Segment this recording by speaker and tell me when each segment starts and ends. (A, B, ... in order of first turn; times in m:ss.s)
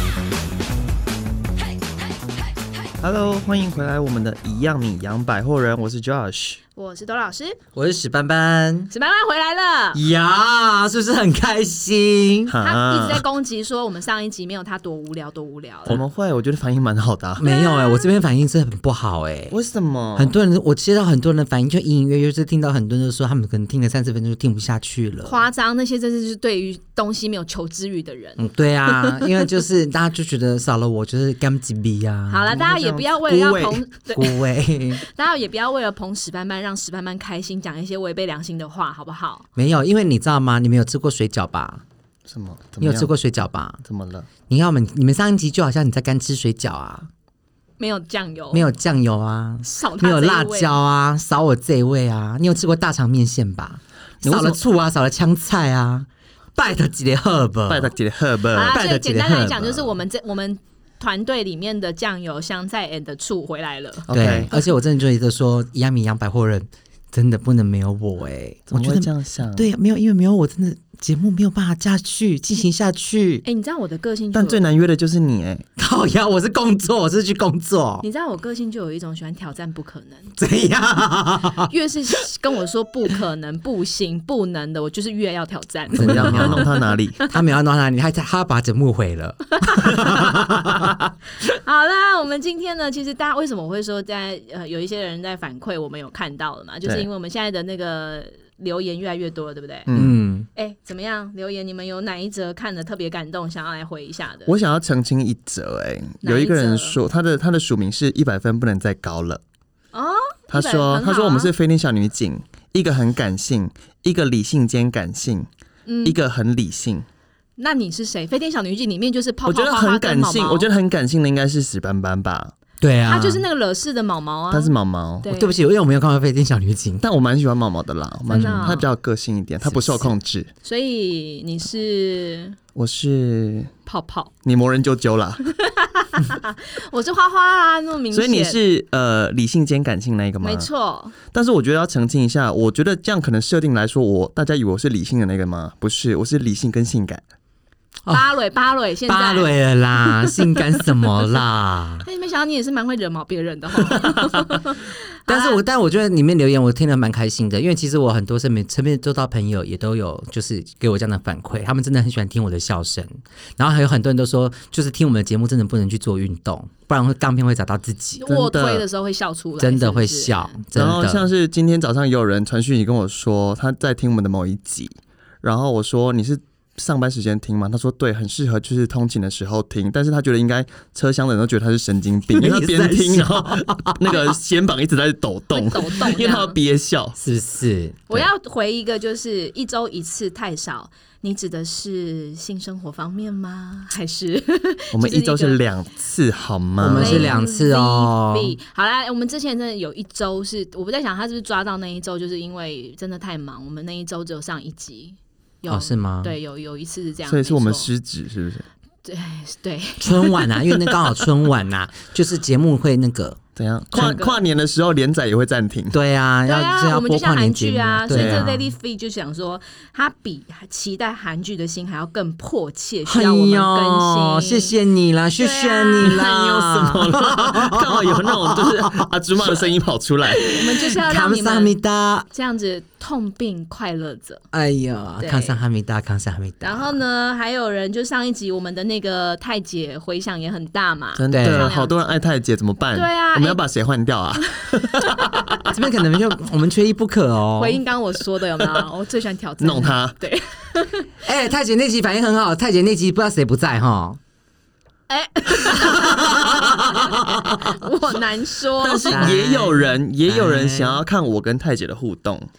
0:03.0-0:06.6 A
0:06.8-0:07.6 B
0:07.8-0:08.9 C
0:08.9-0:10.0 B
0:09.9-0:12.5 C
0:12.5-0:13.2 A
0:12.6-0:16.0 B
0:15.9-0:17.4 A
0:17.4-0:19.6 C
0:17.4-0:18.2 B
0:19.5-0:20.4 A
0:20.2-0:25.4 C
0:25.2-0:29.5 B
0:28.4-0:32.5 C
0:32.3-0:39.5 B
0:32.5-0:33.8 A
0:34.1-0:35.0 C
0:39.6-0:41.8 C
0:42.3-0:43.1 A
0:42.8-0:43.8 C
0:43.9-0:44.3 A
0:44.5-0:47.1 C
0:47.8-0:48.7 B
0:48.5-0:58.0 C
0:49.6-0:50.7 B
0:54.2-0:54.6 A
0:57.7-0:58.8 A
0:58.5-1:04.1 B
0:58.7-1:00.0 C
1:04.1-1:04.5 A
1:04.1-1:13.4 C
1:08.7-1:09.7 A
1:13.4-1:14.7 B
1:14.3-1:15.6 A
1:15.8-1:18.1 C
1:18.0-1:20.4 B
1:20.4-1:21.7 C
1:21.7-1:27.3 B
1:25.9-1:26.7 C
1:26.0-1:27.2 A
1:27.2-1:31.1 C
1:29.6-1:30.4 B
1:31.5-1:39.9 B
1:39.9-1:40.2 A
1:40.0-1:40.5 C
1:40.6-1:44.5 B
1:44.5-1:49.4 A
1:46.2-1:47.0 B
1:49.9-1:51.5 B
1:50.5-1:55.5 A
1:55.9-1:56.2 B
1:56.0-1:57.1 A
1:57.6-2:00.7 B
1:59.5-2:02.5 A
2:02.8-2:03.4 C
2:03.1-2:05.6 B
2:04.5-2:05.3 A
2:05.3-2:07.0 C
2:07.0-2:10.5 A
2:08.3-2:08.9 B
2:08.3-2:08.8 C
2:09.7-2:10.1 C
2:10.6-2:12.6 B
2:12.8-2:13.7 A
2:13.9-2:14.3 B
2:14.4-2:15.4 A
2:15.5-2:18.6 B
2:18.1-2:20.7 A
2:20.4-2:21.2 B
2:21.2-2:27.2 A
2:28.1-2:31.1 B
2:29.1-2:32.0 C
2:32.0-2:35.6 B
2:33.8-2:34.5 C
2:35.3-2:48.4 C
2:48.2-2:50.6 B
2:48.4-2:48.8 A
2:49.6-2:51.3 C
2:50.8-3:07.2 A
3:02.3-3:04.2 C
3:05.5-3:06.6 B
3:07.2-3:08.3 C
3:08.1-3:15.6 B
3:14.9-3:17.3 A
3:16.8-3:18.6 C
3:16.9-3:27.9 B
3:25.7-3:26.4 C
3:27.3-3:28.7 A
3:29.0-3:30.6 B
3:30.0-3:33.4 C
3:33.6-3:36.0 A
3:33.9-3:34.3 C
3:35.9-3:38.7 C
3:36.5-3:44.8 B
3:38.1-3:38.4 A
3:43.1-3:49.6 C
3:45.4-3:46.2 B
3:46.0-3:50.5 A
3:50.4-3:51.8 B
3:50.5-3:52.3 C
3:52.3-3:54.4 B
3:54.5-3:57.0 C
3:55.2-3:55.6 B
3:56.6-4:02.0 B
4:01.2-4:05.6 A
4:01.3-4:01.7 C
4:02.9-4:03.6 B
4:04.4-4:05.5 B
4:05.3-4:07.8 C
4:07.6-4:11.1 B
4:09.6-4:10.2 A
4:11.2-4:14.2 C
4:15.1-4:19.6 B
4:15.6-4:17.8 C
4:18.8-4:22.5 A
4:19.1-4:21.0 C